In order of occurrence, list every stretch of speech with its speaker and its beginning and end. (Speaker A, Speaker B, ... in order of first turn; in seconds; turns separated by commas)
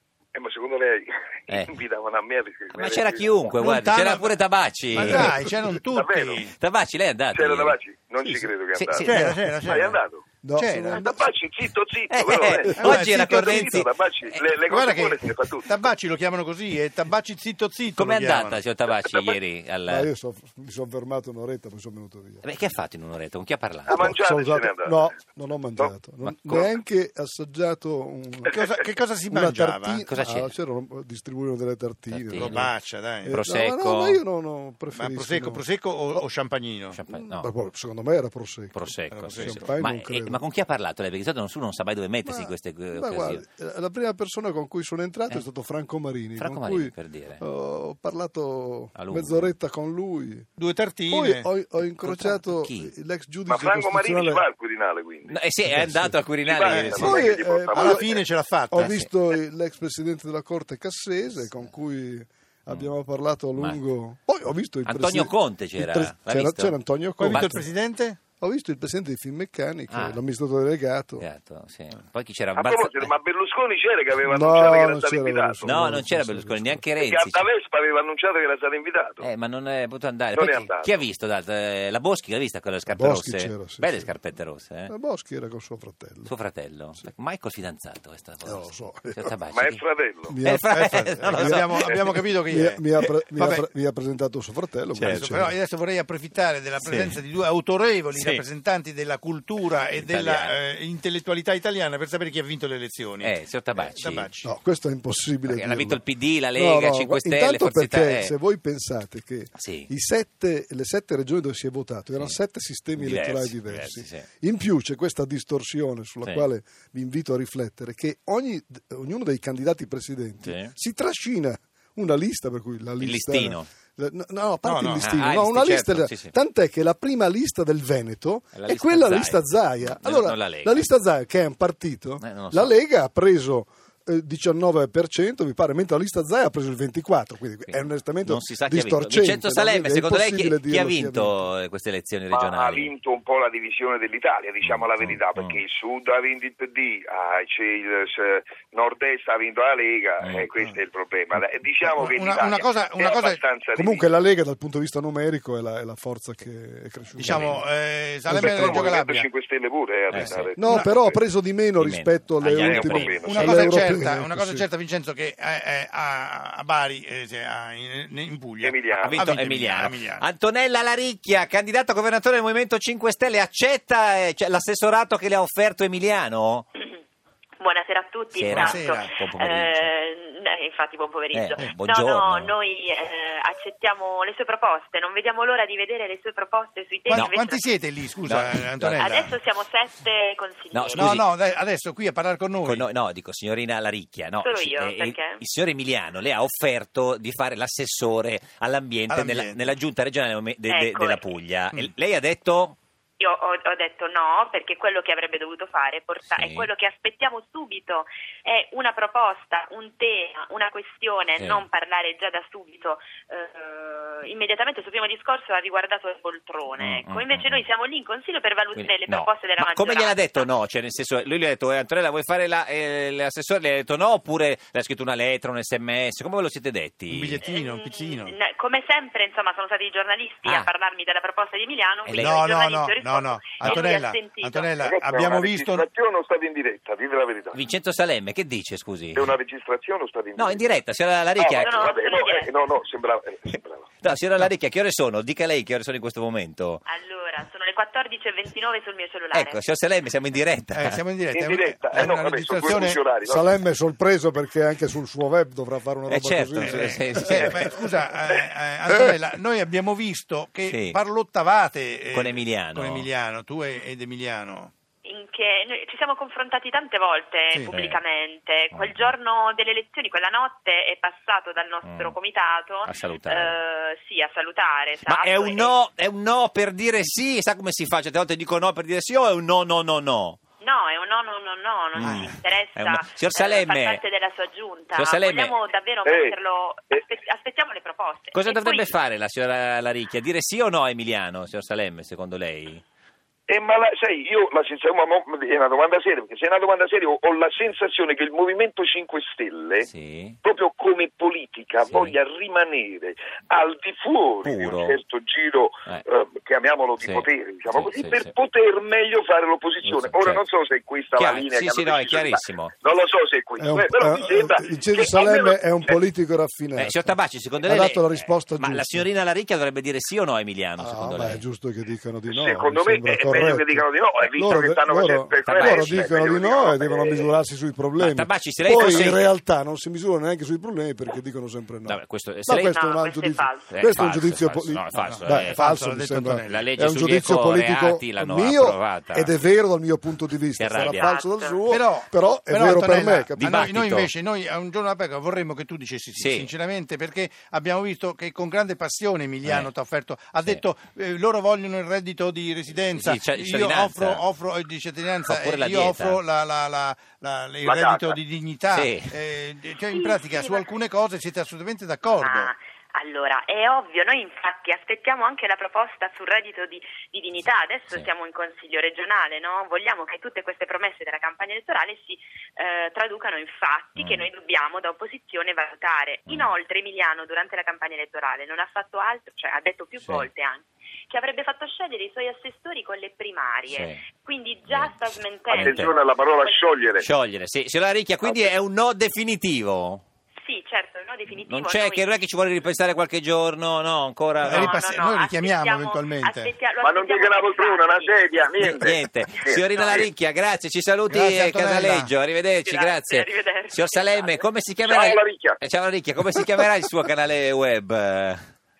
Speaker A: 0.3-3.5, Speaker B: 2.7-5.4, Speaker C: 3.6-4.4, Speaker C: 4.9-6.5, Speaker D: 5.0-5.8, Speaker A: 5.9-6.5, Speaker B: 6.6-7.8, Speaker A: 7.3-10.2, Speaker B: 8.7-9.4, Speaker C: 9.0-10.0, Speaker D: 10.4-11.3, Speaker C: 10.6-11.0, Speaker A: 10.9-15.9, Speaker B: 12.1-14.4, Speaker C: 12.6-13.8, Speaker D: 12.7-12.9, Speaker C: 14.6-18.6, Speaker B: 17.9-20.1, Speaker D: 19.9-22.4, Speaker B: 22.4-24.1, Speaker A: 23.9-25.0, Speaker D: 23.9-28.6, Speaker B: 26.2-26.5, Speaker C: 28.5-30.0, Speaker D: 29.3-35.6, Speaker B: 30.1-30.5, Speaker B: 32.1-32.7, Speaker C: 32.3-33.4, Speaker B: 33.3-34.2, Speaker C: 34.9-37.0, Speaker B: 36.9-37.5, Speaker D: 37.1-40.4, Speaker B: 38.7-43.4, Speaker C: 39.1-39.7, Speaker D: 42.2-50.5, Speaker B: 46.4-47.4, Speaker B: 49.0-49.5, Speaker C: 50.6-51.5, Speaker D: 51.1-54.4, Speaker B: 51.9-52.9, Speaker A: 53.5-55.4, Speaker B: 55.3-57.3, Speaker D: 55.6-56.2, Speaker A: 56.4-58.2, Speaker C: 56.7-57.1, Speaker D: 56.9-58.1, Speaker C: 57.7-58.9, Speaker D: 58.7-67.7, Speaker B: 58.8-59.1, Speaker B: 61.4-61.7, Speaker B: 64.8-67.5, Speaker C: 67.2-68.2, Speaker D: 68.4-71.2, Speaker B: 69.9-70.2, Speaker B: 71.2-73.1, Speaker A: 72.5-75.8, Speaker D: 74.3-76.8, Speaker B: 75.6-77.5, Speaker A: 77.0-79.3, Speaker B: 79.2-84.9, Speaker A: 80.3-81.0, Speaker D: 82.9-84.2, Speaker D: 84.8-86.3, Speaker B: 86.2-89.8, Speaker D: 88.4-89.3, Speaker A: 89.5-90.3, Speaker D: 90.3-91.7, Speaker B: 90.4-92.2, Speaker C: 90.7-92.8, Speaker D: 92.5-95.5, Speaker C: 93.4-93.6, Speaker B: 94.9-95.3, Speaker C: 95.1-104.5, Speaker B: 96.8-97.1, Speaker B: 98.1-98.4, Speaker B: 100.0-100.5, Speaker B: 103.2-104.3, Speaker D: 104.4-141.4, Speaker B: 105.5-108.3, Speaker B: 109.6-109.9, Speaker B: 113.0-114.2, Speaker B: 120.4-120.7, Speaker B: 123.0-123.7, Speaker C: 124.6-125.0, Speaker B: 125.0-126.3, Speaker B: 128.5-130.9, Speaker B: 132.2-132.7, Speaker B: 137.7-142.9, Speaker A: 142.3-154.1, Speaker B: 144.6-145.6, Speaker B: 150.2-150.5, Speaker C: 151.9-153.4, Speaker D: 153.8-157.7, Speaker C: 157.2-159.3, Speaker D: 158.2-158.8, Speaker A: 158.3-160.9, Speaker B: 160.1-160.5, Speaker C: 160.2-161.2, Speaker D: 160.6-164.6, Speaker B: 161.8-163.2, Speaker A: 162.5-163.9, Speaker C: 163.2-170.2, Speaker A: 168.6-169.3, Speaker B: 169.0-176.7, Speaker E: 177.6-187.7, Speaker B: 178.3-179.9, Speaker C: 178.5-179.1, Speaker B: 181.3-182.5, Speaker C: 187.1-189.3, Speaker B: 187.1-187.4, Speaker B: 188.2-189.1, Speaker E: 189.0-191.1, Speaker B: 190.7-191.2, Speaker C: 190.9-192.9, Speaker B: 192.6-202.8, Speaker E: 194.4-195.4, Speaker C: 199.1-199.7, Speaker E: 200.7-201.2, Speaker E: 203.2-220.5, Speaker B: 206.3-206.7, Speaker B: 211.4-211.6, Speaker B: 216.8-217.6, Speaker B: 218.8-227.4, Speaker C: 227.1-228.3, Speaker E: 227.4-234.7, Speaker B: 232.1-232.3, Speaker C: 232.2-235.9, Speaker A: 234.8-237.6, Speaker B: 237.5-239.3, Speaker A: 239.1-240.7, Speaker B: 240.4-241.9, Speaker A: 241.4-243.9, Speaker E: 241.6-242.5, Speaker B: 244.0-246.8, Speaker E: 246.8-249.6, Speaker B: 249.3-251.0, Speaker C: 250.7-253.1, Speaker A: 251.3-253.6, Speaker D: 253.2-257.6, Speaker B: 256.1-257.6, Speaker C: 256.6-264.7, Speaker B: 260.6-261.0, Speaker B: 262.1-263.1, Speaker E: 265.0-275.8, Speaker B: 267.7-268.0, Speaker B: 268.7-269.1, Speaker B: 271.8-272.1, Speaker B: 272.8-273.6, Speaker B: 275.1-280.4, Speaker E: 280.6-288.9, Speaker B: 281.9-284.0, Speaker B: 284.9-285.5, Speaker A: 286.1-286.4, Speaker B: 288.3-292.8, Speaker A: 293.5-299.9, Speaker B: 299.8-300.4, Speaker A: 300.4-316.0, Speaker B: 301.9-302.1, Speaker B: 304.4-304.9, Speaker B: 307.0-308.3, Speaker B: 309.8-310.4, Speaker B: 311.1-312.7, Speaker D: 313.6-319.1, Speaker B: 316.8-321.4, Speaker D: 320.8-343.8, Speaker A: 322.3-327.3, Speaker B: 325.5-325.9, Speaker B: 328.0-329.3, Speaker B: 331.9-332.7, Speaker E: 332.5-333.7, Speaker B: 333.7-335.7, Speaker C: 334.9-336.7, Speaker B: 336.5-339.3, Speaker B: 340.6-341.1, Speaker E: 340.8-341.6, Speaker C: 341.7-362.5, Speaker B: 343.4-344.1, Speaker B: 346.1-346.5, Speaker B: 349.4-349.7, Speaker B: 352.8-354.2, Speaker B: 355.2-356.2, Speaker A: 357.6-358.2, Speaker B: 358.7-359.1, Speaker E: 359.9-360.6, Speaker E: 362.2-386.6, Speaker B: 374.0-374.2, Speaker B: 380.0-380.3, Speaker B: 383.7-384.0, Speaker B: 384.7-384.9, Speaker B: 385.5-385.9, Speaker A: 385.5-387.1, Speaker B: 387.0-390.0, Speaker A: 388.2-388.5, Speaker E: 390.4-392.1, Speaker B: 391.4-394.7, Speaker C: 394.4-396.5, Speaker E: 394.5-398.2, Speaker A: 396.8-400.1, Speaker B: 398.6-408.4, Speaker C: 401.1-402.1, Speaker E: 402.6-404.4, Speaker A: 404.8-405.6